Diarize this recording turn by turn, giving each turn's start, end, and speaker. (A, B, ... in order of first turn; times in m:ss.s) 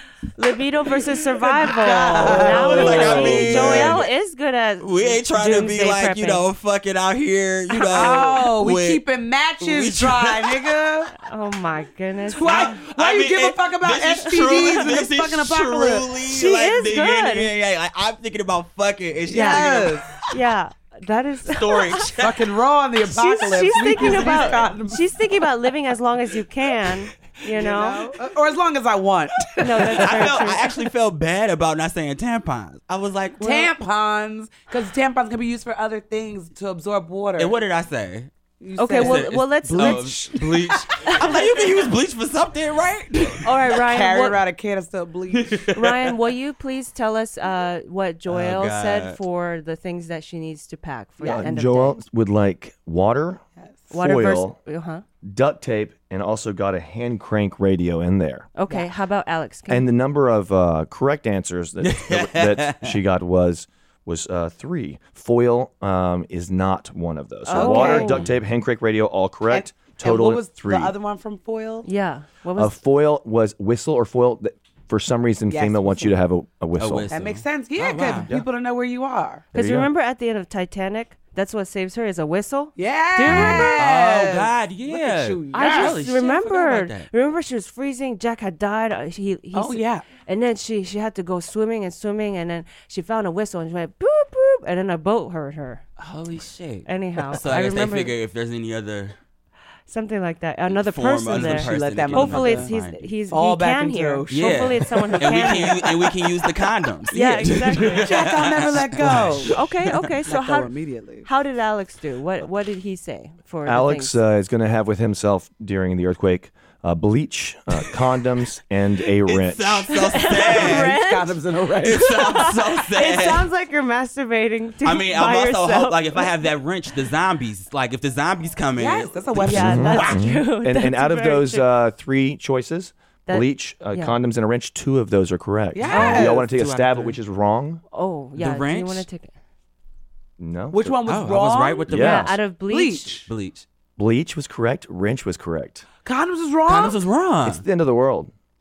0:00.4-0:06.4 A
0:01.3-0:04.1 B
0:02.2-0:04.0 C
0:04.8-0:09.0 C
0:07.7-0:11.1 B
0:09.6-0:10.8 C
0:11.2-0:12.8 A
0:12.3-0:16.1 B
0:12.4-0:20.3 C
0:16.3-0:17.5 A
0:19.3-0:20.1 B
0:19.3-0:19.7 A
0:20.3-0:22.1 A
0:21.5-0:22.6 C
0:22.2-0:25.0 B
0:23.0-0:28.1 A
0:27.5-0:30.6 B
0:29.6-0:30.6 A
0:29.9-0:33.6 C
0:33.4-0:37.6 B
0:33.4-0:33.7 A
0:37.4-0:38.3 C
0:38.6-0:41.6 B
0:38.8-0:40.0 A
0:38.9-0:43.5 C
0:41.1-0:41.4 A
0:43.4-0:44.4 A
0:43.6-0:45.6 B
0:45.3-0:46.1 C
0:45.7-0:52.0 A
0:48.3-0:49.2 C
0:51.2-0:51.5 B
0:51.3-0:54.6 D
0:53.9-0:55.0 A
0:55.2-0:58.5 D
0:58.6-0:59.9 A
0:59.7-1:10.9 D
1:01.8-1:03.0 C
1:07.5-1:08.2 A
1:07.5-1:08.2 B
1:09.5-1:11.9 B
1:11.8-1:12.8 A
1:12.6-1:17.1 D
1:15.5-1:16.1 B
1:16.8-1:18.3 C
1:17.1-1:19.4 B
1:19.5-1:23.8 A
1:19.6-1:19.9 D
1:22.8-1:26.0 B
1:23.4-1:27.1 C
1:25.5-1:35.8 A
1:29.5-1:30.1 B
1:36.0-1:39.2 C
1:36.9-1:38.1 A
1:39.9-1:45.9 A
1:40.7-1:43.1 C
1:41.3-1:42.7 B
1:43.3-1:45.9 B
1:44.3-1:49.6 C
1:47.1-1:48.3 A
1:47.8-1:49.6 B
1:49.5-1:50.7 A
1:50.3-1:51.3 B
1:51.2-1:54.2 A
1:53.7-2:00.0 D
1:59.2-2:01.0 C
2:00.1-2:01.4 A
2:00.2-2:02.2 B
2:01.8-2:03.5 C
2:02.0-2:06.3 A
2:04.8-2:09.8 C
2:08.8-2:10.3 B
2:09.5-2:11.7 A
2:09.5-2:17.8 D
2:13.3-2:14.2 A
2:15.7-2:16.5 B
2:15.8-2:17.2 C
2:15.9-2:16.4 A
2:17.9-2:19.3 A
2:18.4-2:19.1 C
2:20.4-2:21.0 D
2:20.7-2:21.9 B
2:21.1-2:22.4 C
2:21.9-2:22.4 D
2:21.9-2:23.2 A
2:22.7-2:23.3 B
2:23.3-2:23.7 C
2:24.0-2:25.8 D
2:26.0-2:27.0 B
2:26.7-2:27.6 C
2:27.4-2:28.3 D